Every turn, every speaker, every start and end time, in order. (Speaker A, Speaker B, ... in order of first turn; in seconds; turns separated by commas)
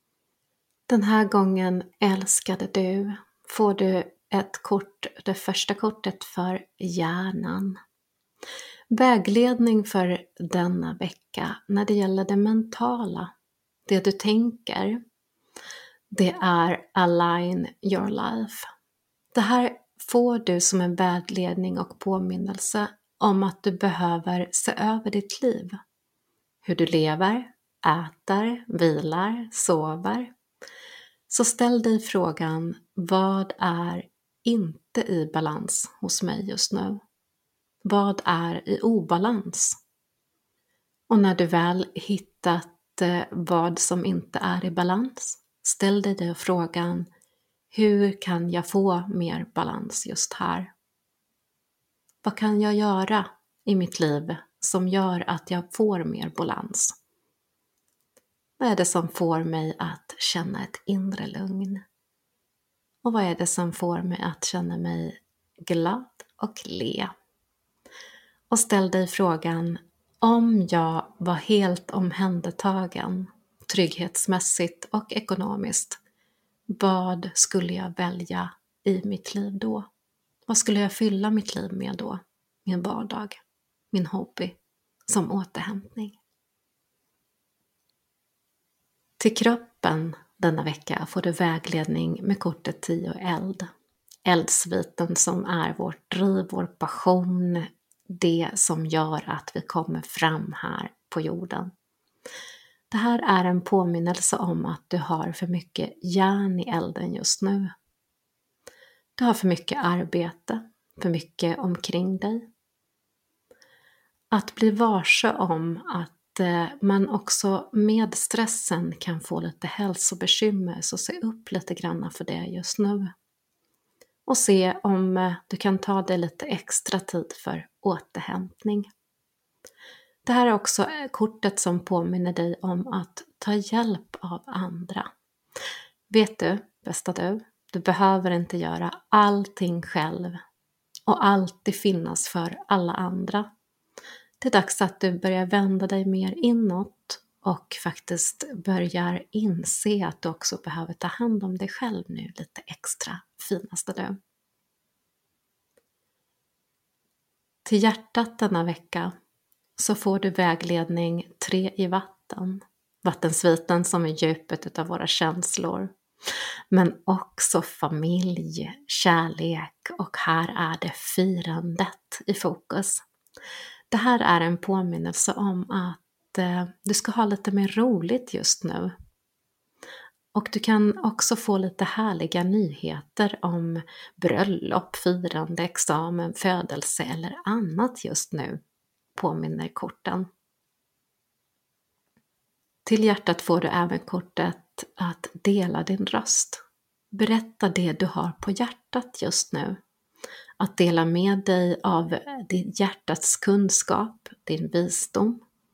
Speaker A: 0.9-7.8, Speaker A: 8.9-13.3, Speaker A: 13.9-15.0, Speaker A: 16.1-18.7, Speaker A: 19.3-25.8, Speaker A: 26.6-30.3, Speaker A: 31.3-37.0, Speaker A: 37.8-39.8, Speaker A: 41.1-47.1, Speaker A: 47.7-50.7, Speaker A: 52.2-56.9, Speaker A: 58.6-61.8, Speaker A: 63.0-67.1, Speaker A: 68.5-76.0, Speaker A: 76.7-79.9, Speaker A: 80.5-83.4, Speaker A: 83.9-86.2, Speaker A: 89.2-93.7, Speaker A: 94.2-101.7, Speaker A: 102.9-107.7, Speaker A: 109.2-112.4, Speaker A: 114.3-123.1, Speaker A: 124.3-128.9, Speaker A: 130.2-135.1, Speaker A: 136.1-140.4, Speaker A: 141.1-143.5, Speaker A: 144.4-154.2, Speaker A: 157.7-159.1, Speaker A: 159.8-165.9, Speaker A: 166.7-173.0, Speaker A: 173.9-178.9, Speaker A: 180.3-188.6, Speaker A: 189.2-190.3, Speaker A: 192.9-199.8, Speaker A: 200.6-205.4